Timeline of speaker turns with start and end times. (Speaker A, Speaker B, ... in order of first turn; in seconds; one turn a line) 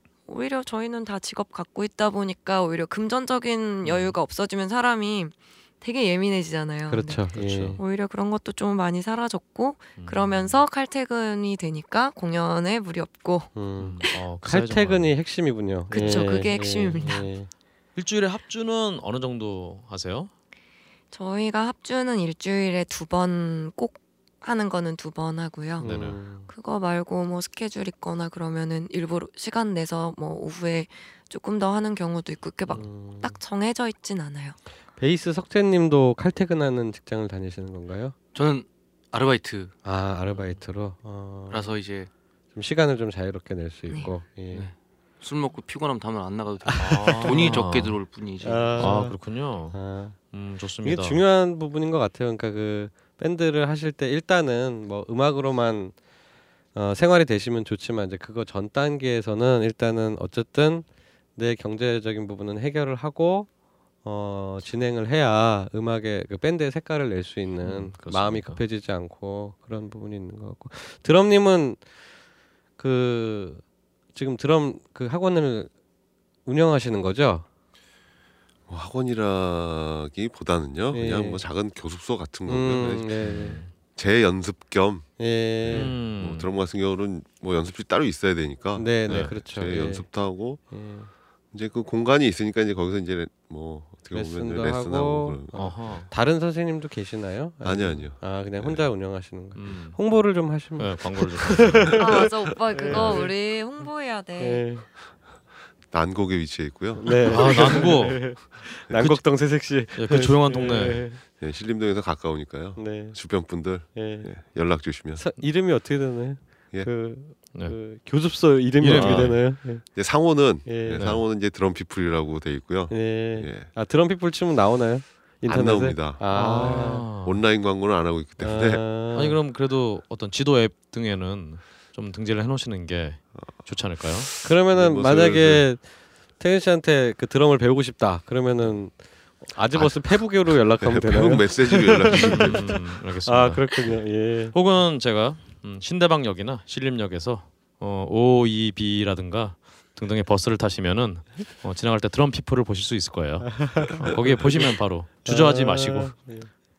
Speaker A: 0.3-13.6
Speaker B: 3.8-4.2
Speaker C: 6.9-7.8
Speaker B: 7.3-7.8
Speaker B: 10.0-10.7
Speaker C: 13.6-17.5
Speaker B: 13.8-15.2
Speaker A: 15.9-17.3
Speaker B: 18.0-20.3
Speaker A: 21.1-34.6
Speaker B: 25.8-26.2
Speaker C: 25.8-26.5
Speaker C: 32.7-33.4
Speaker C: 35.0-38.2
Speaker D: 38.3-39.7
Speaker C: 39.8-41.8
Speaker D: 41.5-42.1
Speaker C: 42.5-44.7
Speaker D: 44.5-49.0
Speaker C: 46.6-47.6
Speaker B: 46.8-48.0
Speaker C: 48.4-50.2
Speaker B: 48.8-49.8
Speaker B: 50.3-51.2
Speaker C: 50.8-56.0
Speaker C: 56.7-63.5
Speaker C: 64.0-71.8
Speaker B: 67.6-68.6
Speaker C: 72.8-75.7
Speaker C: 76.5-77.5
Speaker E: 78.7-83.3
Speaker C: 80.9-81.4
Speaker C: 82.5-83.6
Speaker B: 83.2-83.7
Speaker E: 83.9-85.1
Speaker C: 85.2-86.0
Speaker E: 85.6-90.7
Speaker B: 85.7-86.5
Speaker C: 88.8-91.1
Speaker B: 89.1-89.4
Speaker E: 91.5-95.6
Speaker C: 94.1-103.3
Speaker B: 95.5-96.1
Speaker E: 97.6-98.9
Speaker B: 99.5-100.0
Speaker B: 100.8-102.0
Speaker A: 102.0-104.8
Speaker B: 102.9-103.2
Speaker C: 104.4-104.9
Speaker E: 105.9-107.9
Speaker C: 107.0-111.2
Speaker B: 107.3-108.3
Speaker B: 108.9-111.1
Speaker E: 110.6-115.3
Speaker C: 112.8-114.4
Speaker C: 115.1-119.9
Speaker B: 118.8-119.4
Speaker E: 118.9-123.7
Speaker C: 120.6-121.1
Speaker B: 121.0-121.2
Speaker C: 122.9-127.1
Speaker E: 125.5-128.9
Speaker B: 126.3-127.4
Speaker C: 128.4-129.4
Speaker B: 129.1-134.3
Speaker E: 133.4-135.7
Speaker C: 134.4-144.6
Speaker E: 140.8-142.7
Speaker B: 142.1-156.2
Speaker C: 153.7-154.4
Speaker E: 154.1-154.3
Speaker C: 155.2-156.5